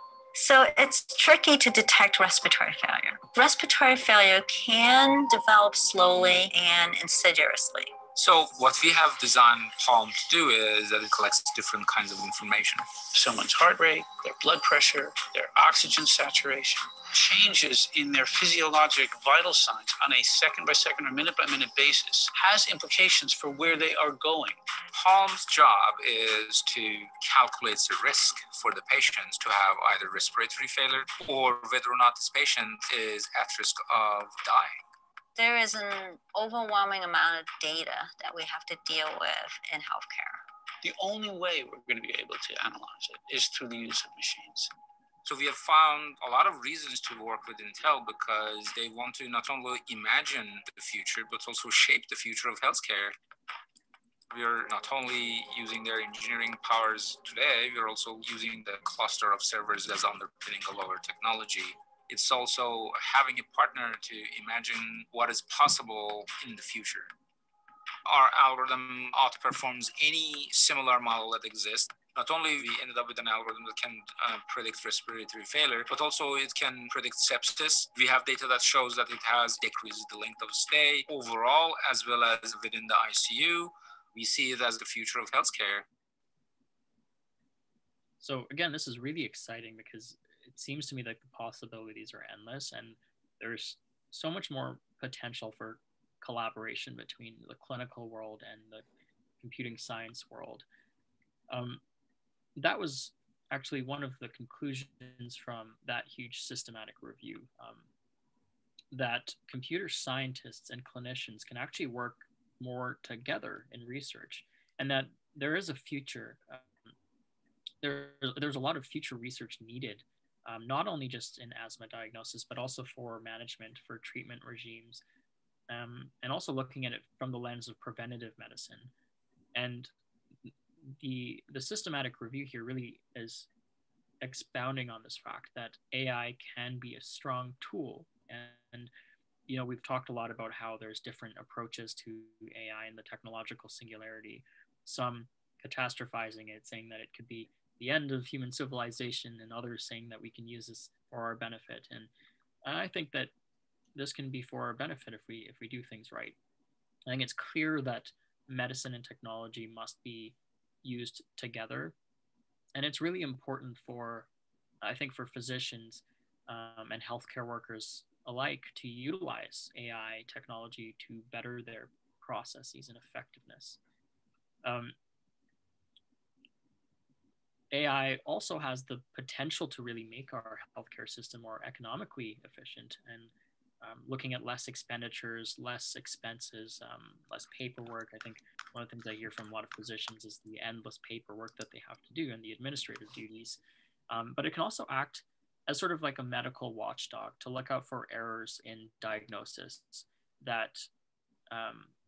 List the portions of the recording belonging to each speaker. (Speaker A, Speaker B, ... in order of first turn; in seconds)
Speaker A: 0.3-8.0, 35.4-40.4
Speaker B: 8.1-12.9, 24.9-34.8, 45.2-53.1, 54.3-67.1, 68.0-85.8
Speaker C: 13.1-24.6, 40.8-44.7
Speaker D: 88.2-98.8, 99.4-100.6, 101.5-101.8, 102.6-107.8, 108.9-116.9, 117.8-125.0, 125.7-128.9, 129.5-129.9, 131.0-133.5, 134.2-138.9, 139.5-152.1, 152.6-153.3, 153.9-156.3, 157.1-161.9, 162.7-164.3, 164.8-173.8, 174.6-174.9, 177.7-200.9, 201.5-201.9